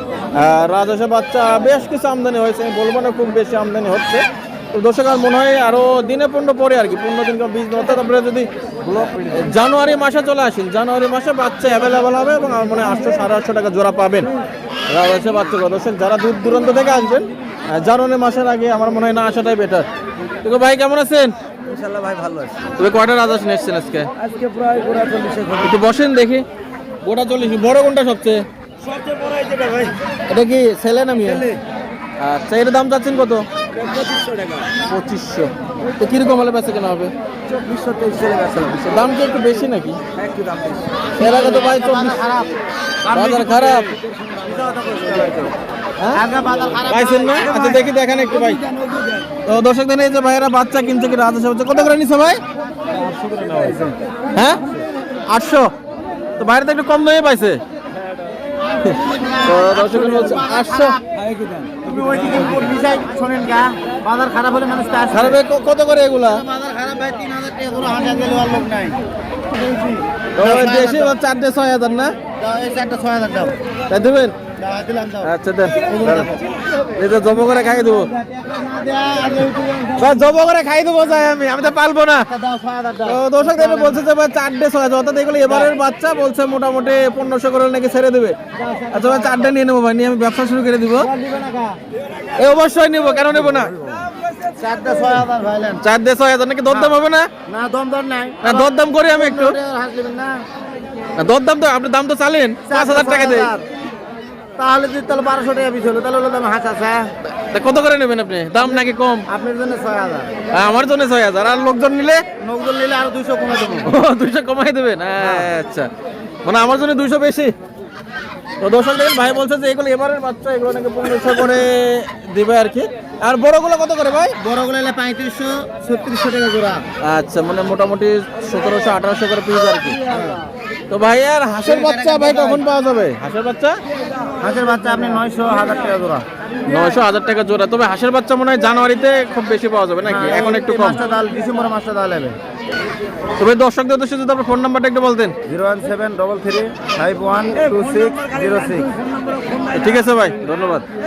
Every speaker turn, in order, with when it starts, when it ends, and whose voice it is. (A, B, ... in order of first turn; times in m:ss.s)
0:00.3-0:08.5 A
0:08.9-0:09.3 B
0:09.3-0:14.3 A
0:14.9-0:19.8 A
0:20.4-0:21.3 A
0:21.6-0:22.6 B
0:22.8-0:24.1 A
0:24.2-0:25.7 B
0:25.6-0:26.4 A
0:27.0-0:28.4 A
0:29.3-0:29.9 B
0:30.3-0:31.5 A
0:32.2-0:33.4 A
0:33.8-0:34.7 B
0:34.8-0:37.1 A
0:37.5-0:39.0 B
0:38.7-0:40.0 A
0:40.1-0:41.1 B
0:41.2-0:42.2 A
0:41.2-0:42.6 C
0:43.1-0:44.0 A
0:43.1-0:43.8 B
0:44.4-0:45.5 C
0:46.1-0:47.9 C
0:46.8-0:48.6 A
0:49.4-0:52.4 A
0:52.9-0:53.7 C
0:53.0-0:53.9 B
0:54.3-0:54.6 A
0:55.3-0:55.7 A
0:56.4-0:57.6 A
0:58.8-1:01.0 A
0:58.9-1:05.4 C
1:05.1-1:06.4 A
1:06.3-1:11.2 C
1:10.3-1:12.1 A
1:12.4-1:13.6 C
1:13.9-1:14.3 A
1:14.6-1:15.3 C
1:15.2-1:16.3 A
1:15.8-1:16.4 C
1:17.0-1:18.1 A
1:18.0-1:20.2 C
1:20.0-1:22.3 A
1:22.3-1:24.0 C
1:23.0-1:28.4 A
1:28.5-1:29.5 C
1:28.9-1:31.1 A
1:31.1-1:31.8 C
1:32.4-1:33.8 A
1:34.5-1:35.8 C
1:35.8-1:37.3 A
1:36.7-1:40.4 C
1:38.4-1:39.6 A
1:41.2-1:43.5 A
1:42.6-1:43.6 C
1:44.6-1:47.1 C
1:47.3-1:49.2 A
1:49.3-1:50.4 C
1:50.5-1:52.2 A
1:52.4-1:53.9 C
1:53.8-1:55.9 A
1:55.2-1:55.5 C
1:56.4-1:57.5 A
1:58.6-2:04.4 A
2:04.4-2:06.8 C
2:07.0-2:10.0 A
2:10.1-2:10.4 C
2:10.9-2:13.8 A
2:11.6-2:12.6 C
2:14.4-2:16.2 C
2:16.7-2:21.0 A
2:20.0-2:22.4 C
2:23.4-2:25.3 A
2:25.5-2:28.9 C
2:29.7-2:30.8 A